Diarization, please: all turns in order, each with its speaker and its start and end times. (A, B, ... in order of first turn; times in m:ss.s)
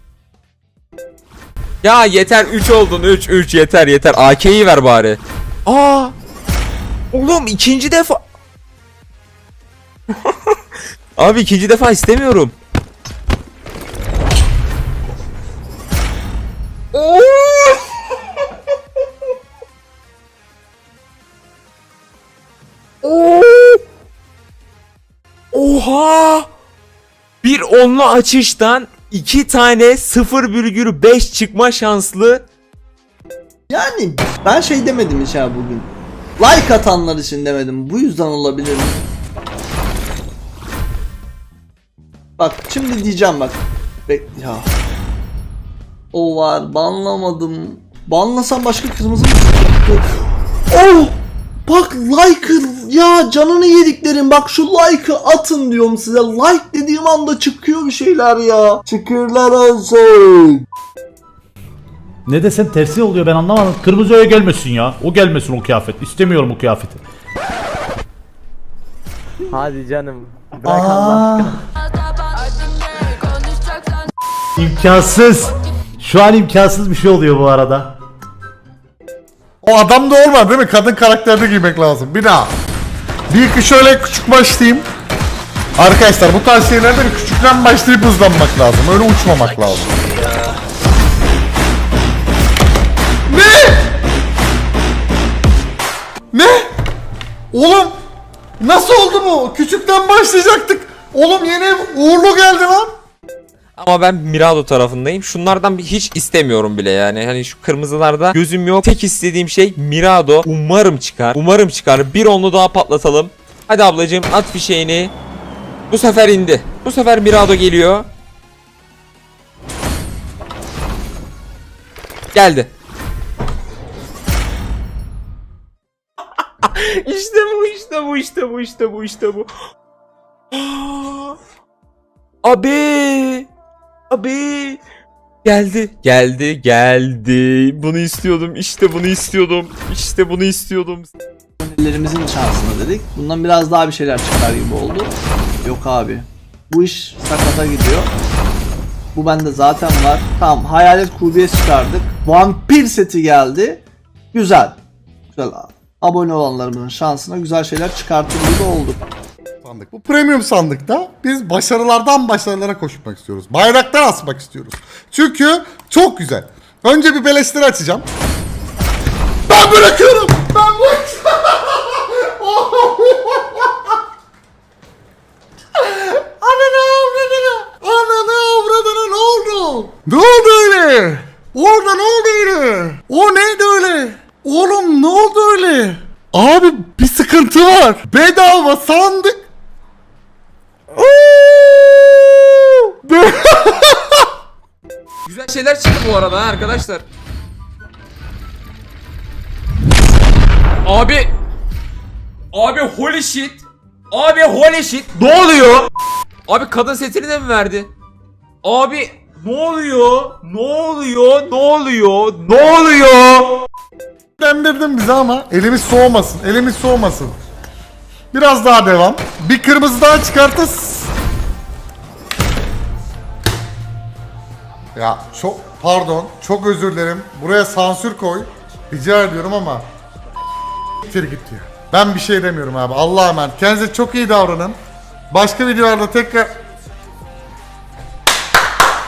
0:01.8-0:06.1 A
0:07.1-0:08.2 A
0:11.2-0:12.5 A
0:16.9-0:17.8 A
0:23.0-0:23.8 A
0:25.5-0:26.5 A
0:27.4-0:32.4 A
0:33.7-0:39.0 B
0:42.4-0:44.7 B
0:46.1-1:00.6 B
1:02.2-1:07.0 C
1:09.5-1:11.6 D
1:10.6-1:11.6 C
1:14.6-1:17.9 C
1:19.6-1:22.5 E
1:23.3-1:24.9 E
1:25.8-1:29.9 E
1:33.3-1:33.9 E
1:36.3-1:36.6 E
1:37.5-1:38.0 E
1:38.6-1:42.9 E
1:43.8-1:55.1 A
1:55.9-1:58.1 A
2:02.3-2:02.7 A
2:06.6-2:09.5 A
2:10.5-2:11.4 A
2:12.4-2:13.5 A
2:14.1-2:14.8 A
2:15.4-2:21.1 A
2:21.6-2:28.1 B
2:29.1-2:34.8 B
2:35.3-2:39.1 B
2:39.6-2:48.1 E
2:49.5-2:53.7 E
2:55.8-3:09.4 E
3:11.4-3:11.8 A
3:13.1-3:13.9 E
3:15.2-3:17.0 A
3:20.8-3:21.3 A
3:22.5-3:25.9 A
3:26.5-3:27.9 A
3:28.6-3:33.5 A
3:34.4-3:37.3 E
3:38.3-3:41.1 E
3:44.9-3:49.8 E
3:51.0-3:54.8 E
3:55.3-3:56.5 E